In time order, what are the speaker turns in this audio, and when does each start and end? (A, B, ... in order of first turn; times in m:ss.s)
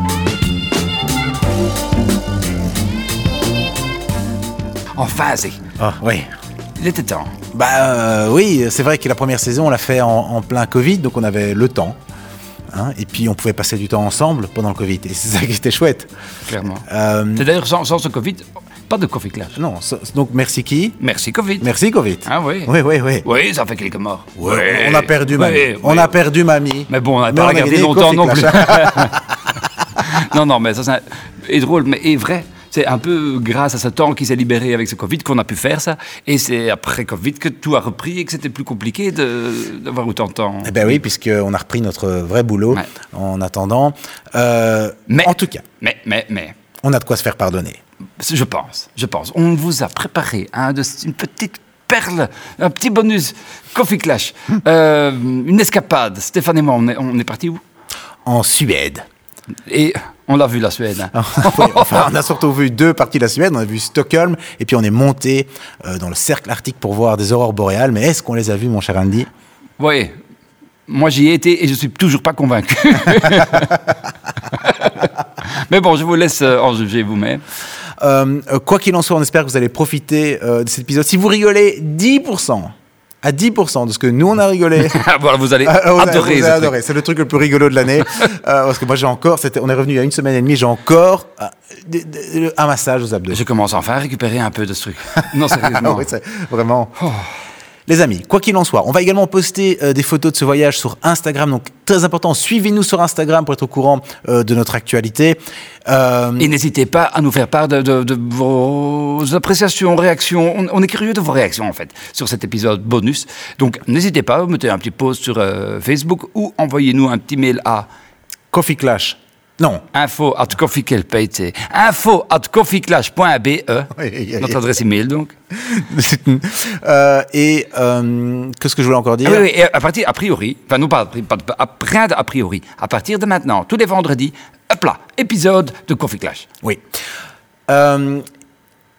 0:05.0-0:05.6 A
0:05.8-0:06.3 B
0:06.8-0:07.4 A
0:07.5-0:12.0 B
0:12.7-0:16.1 B
0:16.5-0:19.6 A
0:16.9-0:17.5 B
0:19.6-0:21.0 B
0:21.0-0:21.7 A
0:21.6-0:23.3 B
0:22.2-0:22.7 A
0:23.2-0:26.2 A
0:24.4-0:29.2 B
0:26.9-0:29.2 A
0:30.1-0:41.0 A
0:40.6-0:45.6 B
0:45.1-0:46.6 A
0:46.8-0:47.8 B
0:48.2-0:57.6 A
0:58.2-0:59.0 B
0:59.7-1:02.1 A
1:01.1-1:09.3 B
1:09.8-1:10.2 A
1:10.9-1:13.8 A
1:14.5-1:17.4 A
1:18.0-1:25.0 B
1:24.8-1:26.8 A
1:25.6-1:33.4 B
1:33.3-1:36.1 A
1:35.2-1:36.9 B
1:37.0-1:37.3 A
1:37.9-1:46.5 B
1:46.4-1:57.9 A
1:58.5-1:59.8 B
1:59.9-2:05.3 A
2:03.9-2:04.6 B
2:05.6-2:09.5 B
2:09.2-2:16.5 A
2:17.7-2:18.3 B